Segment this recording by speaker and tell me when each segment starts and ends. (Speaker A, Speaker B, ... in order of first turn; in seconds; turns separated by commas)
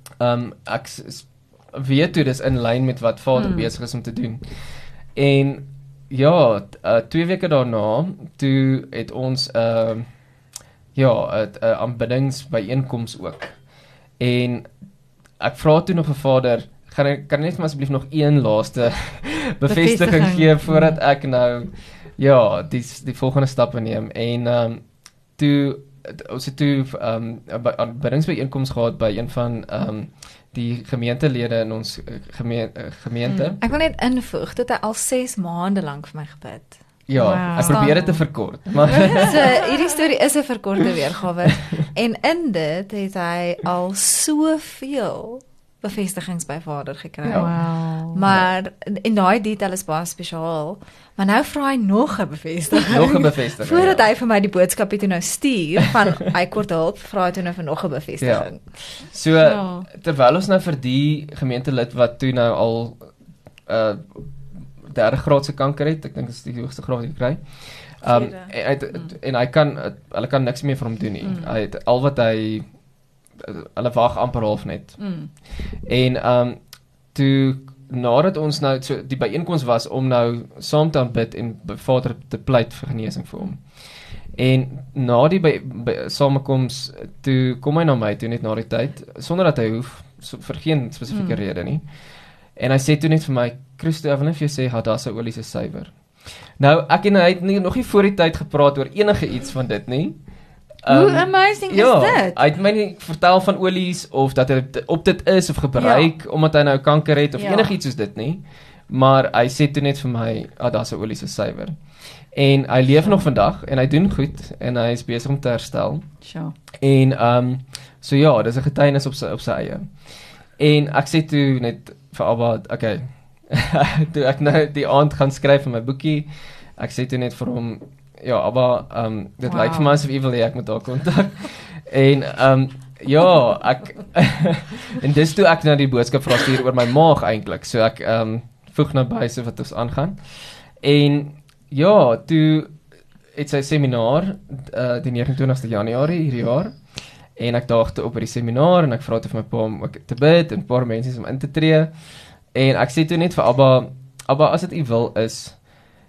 Speaker A: 0.2-4.4, Speaker B: 3.4-3.7, Speaker A: 5.2-10.1, Speaker A: 10.9-13.6, Speaker A: 14.2-14.7, Speaker A: 15.4-24.8, Speaker B: 19.7-21.0, Speaker A: 25.4-33.6, Speaker B: 33.3-33.6, Speaker C: 33.6-38.0, Speaker A: 37.1-39.4, Speaker B: 37.1-38.2, Speaker C: 39.1-47.6, Speaker B: 47.3-48.2, Speaker A: 47.3-47.6, Speaker C: 48.1-58.6, Speaker A: 52.9-54.1, Speaker A: 58.2-63.1, Speaker B: 59.5-59.9, Speaker A: 63.7-64.3, Speaker A: 64.8-67.4, Speaker A: 68.0-72.7, Speaker C: 68.0-68.5, Speaker B: 71.2-71.5, Speaker A: 73.4-75.0, Speaker B: 75.0-75.3, Speaker A: 75.9-76.6, Speaker A: 77.1-83.7, Speaker A: 84.4-91.8, Speaker B: 91.1-91.4, Speaker A: 92.6-95.9, Speaker A: 96.6-100.2, Speaker A: 100.8-111.8, Speaker B: 100.9-102.5, Speaker B: 105.8-106.1, Speaker B: 107.4-107.8, Speaker A: 112.3-116.1, Speaker B: 116.2-116.5, Speaker A: 116.8-119.9, Speaker A: 120.6-140.2, Speaker B: 129.4-130.0, Speaker A: 140.8-142.8, Speaker A: 143.3-146.8, Speaker A: 147.4-151.9, Speaker A: 152.5-155.6